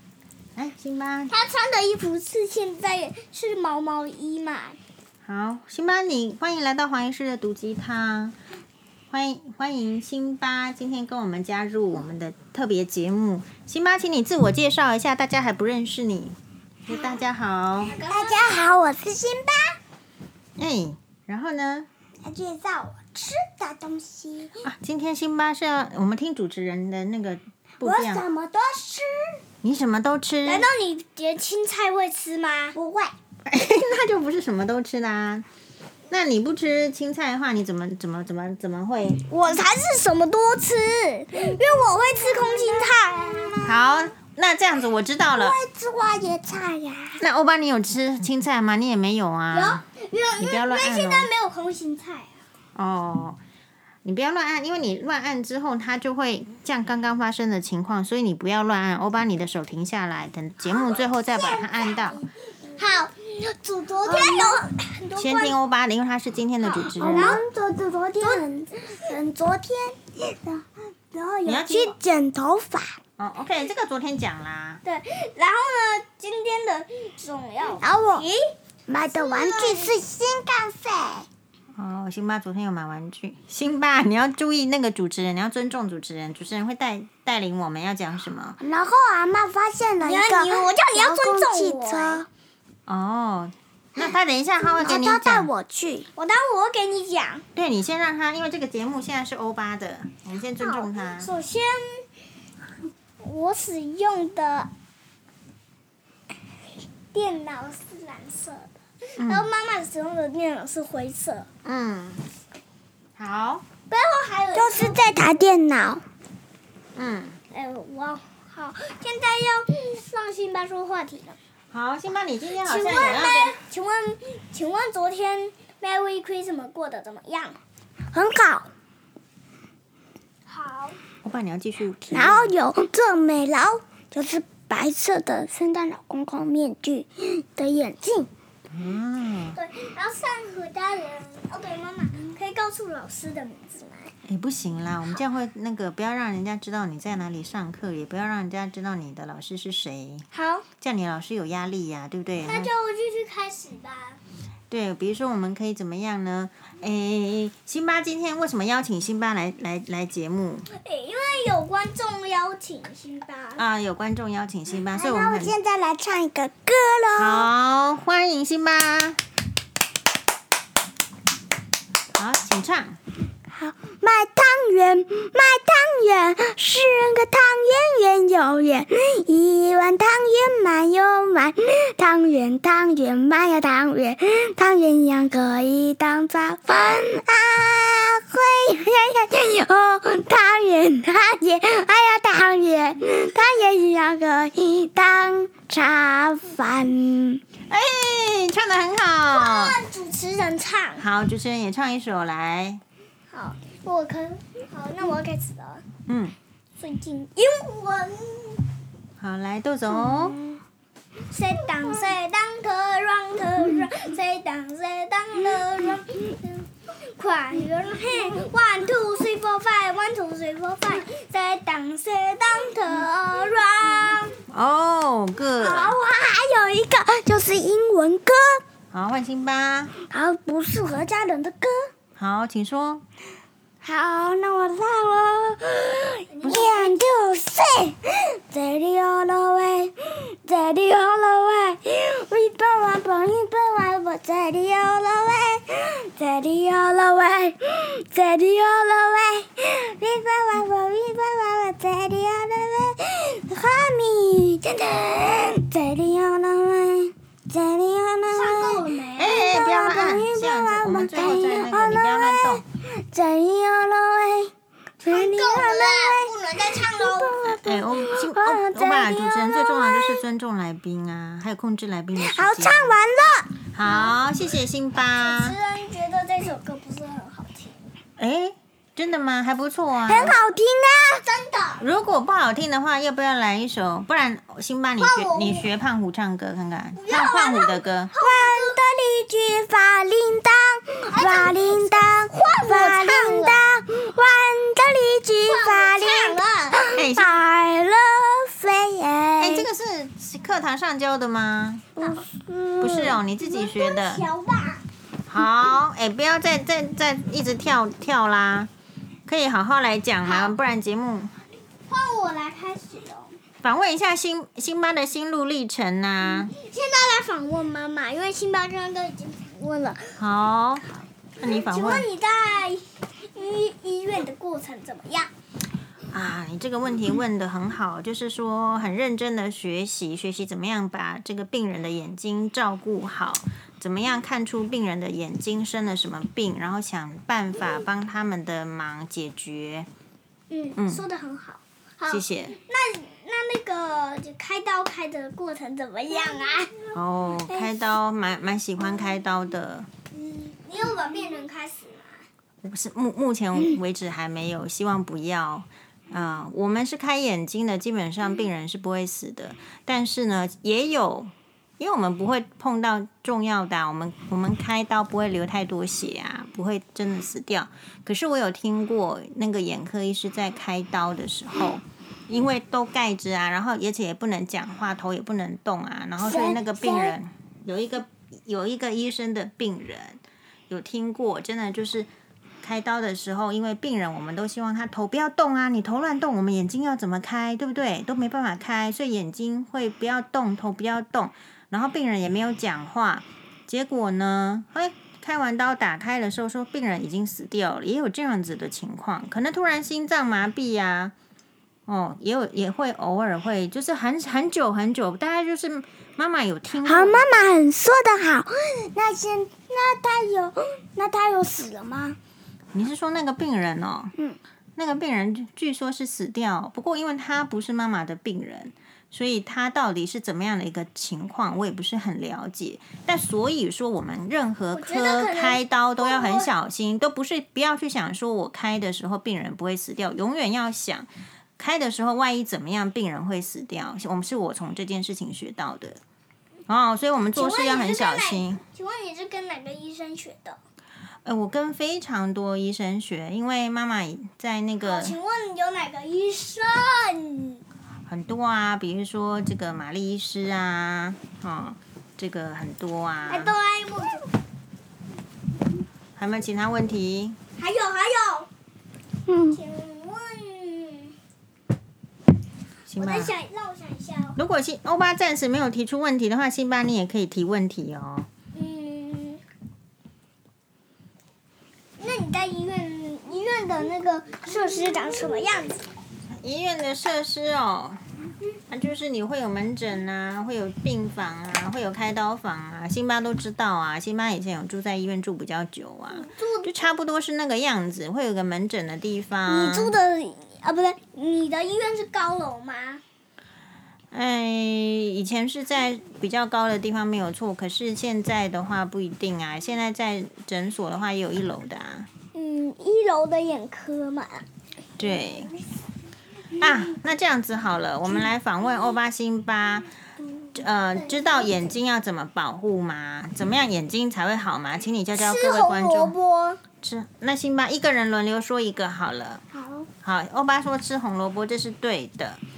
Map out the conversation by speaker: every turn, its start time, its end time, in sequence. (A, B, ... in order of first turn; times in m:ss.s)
0:00.6-0:01.3 A
0:01.3-0:04.8 B
0:05.3-0:08.4 A
0:09.1-0:18.0 A
0:17.9-0:18.6 B
0:18.0-0:19.8 C
0:20.6-0:21.9 A
0:22.2-0:24.5 C
0:24.6-0:28.3 A
0:27.8-0:29.4 C
0:29.6-0:30.7 A
0:30.4-0:32.8 B
0:32.7-0:33.2 C
0:33.5-0:35.4 A
0:36.1-0:39.2 A
0:39.3-0:43.6 B
0:41.4-0:44.1 C
0:43.6-0:45.6 A
0:45.3-0:47.2 C
0:47.2-0:49.8 A
0:49.5-0:52.4 B
0:50.4-0:51.3 A
0:52.8-0:53.4 A
0:54.0-1:02.2 A
1:01.3-1:02.3 C
1:02.8-1:05.6 B
1:04.0-1:04.7 C
1:05.2-1:07.4 A
1:06.7-1:13.0 C
1:07.0-1:07.4 B
1:11.4-1:12.0 A
1:13.2-1:14.8 A
1:14.8-1:18.5 B
1:17.8-1:18.3 C
1:18.9-1:21.3 C
1:19.1-1:19.9 B
1:21.8-1:28.6 A
1:28.6-1:32.3 C
1:30.0-1:32.2 B
1:32.9-1:35.5 A
1:34.6-1:36.1 C
1:36.2-1:37.4 B
1:37.6-1:41.3 A
1:40.6-1:42.1 B
1:43.2-1:44.7 B
1:47.1-1:51.5 B
1:49.2-1:49.5 A
1:51.6-1:52.3 A
1:53.2-1:53.6 A
1:53.9-1:55.2 B
1:54.6-1:56.0 C
1:57.0-1:57.4 A
1:57.5-2:01.4 B
2:01.7-2:03.6 A
2:02.6-2:07.6 B
2:08.1-2:08.7 C
2:10.5-2:11.0 B
2:11.2-2:12.5 A
2:12.1-2:18.3 C
2:18.7-2:19.6 A
2:19.6-2:24.1 B
2:24.3-2:30.2 A
2:30.3-2:30.7 B
2:30.8-2:32.7 A
2:32.4-2:34.2 B
2:34.7-2:40.7 A
2:40.7-2:43.6 B
2:43.6-2:45.6 A
2:44.9-2:47.5 C
2:47.1-2:49.2 A
2:52.2-2:53.0 A
2:53.5-3:17.4 C
3:17.7-3:19.8 A
3:19.3-3:21.0 B
3:21.0-3:22.8 A
3:23.3-3:25.8 B
3:26.1-3:26.4 A
3:26.8-3:28.6 B
3:29.2-3:30.4 A
3:29.9-3:30.6 C
3:31.3-3:44.4 B
3:44.5-3:46.0 A
3:45.6-3:48.6 C
3:48.9-3:49.9 A
3:50.1-3:51.9 C
3:52.2-3:53.0 A
3:53.8-4:30.2 C
3:56.3-3:57.0 B
4:18.3-4:19.4 B
4:19.2-4:22.6 A
4:25.0-4:27.4 B
4:27.4-4:33.0 A
4:32.2-4:33.5 C
4:33.7-4:35.6 A
4:33.8-4:34.2 B
4:35.2-4:37.8 B
4:38.2-4:40.4 A
4:40.1-4:41.2 C
4:41.2-4:41.8 B
4:41.8-4:48.1 A
4:45.0-4:45.7 B
4:47.0-4:48.8 B
4:48.2-4:59.7 C
4:51.1-4:53.6 B
4:55.5-4:56.8 B
4:56.9-4:57.4 A
4:59.4-5:01.9 A
5:02.0-5:03.2 C
5:02.8-5:04.2 A
5:03.4-5:04.8 B
5:05.3-5:08.7 A
5:09.3-5:11.3 A
5:10.2-5:10.5 B
5:11.9-5:13.4 B
5:13.6-5:16.5 A
5:16.4-5:20.2 B
5:20.2-5:22.1 A
5:21.4-5:25.3 B
5:26.1-5:39.9 A
5:40.5-5:46.8 B
5:40.8-5:41.0 A
5:42.1-5:42.6 A
5:46.9-5:49.9 A
5:50.1-5:52.2 B
5:52.6-6:22.1 A
6:16.2-6:17.1 C
6:22.6-6:41.1 A
6:41.9-6:47.3 A
6:46.8-6:52.2 C
6:52.7-6:54.1 A
6:54.8-7:16.0 A
7:04.7-7:06.5 B
7:16.7-7:18.6 A
7:17.3-7:20.6 B
7:21.2-7:25.2 A
7:24.8-7:27.6 B
7:28.1-7:33.5 A
7:33.3-7:34.2 B
7:36.2-7:37.4 A
7:37.6-7:38.5 B
7:39.3-7:39.6 C
7:39.5-7:41.2 B
7:42.9-7:43.3 A
7:43.0-7:44.4 B
7:44.4-7:48.3 A
7:48.5-7:49.4 B
7:52.0-7:55.9 B
7:56.4-7:58.0 A
7:58.7-8:10.0 A
8:06.1-8:06.9 B
8:09.5-8:13.0 B
8:14.1-8:22.1 A
8:22.3-8:24.5 B
8:25.0-8:25.5 A
8:26.6-8:29.9 A
8:30.6-8:36.2 A
8:35.2-8:36.6 B
8:36.8-8:39.4 A
8:39.5-8:39.9 C
8:40.0-8:42.4 A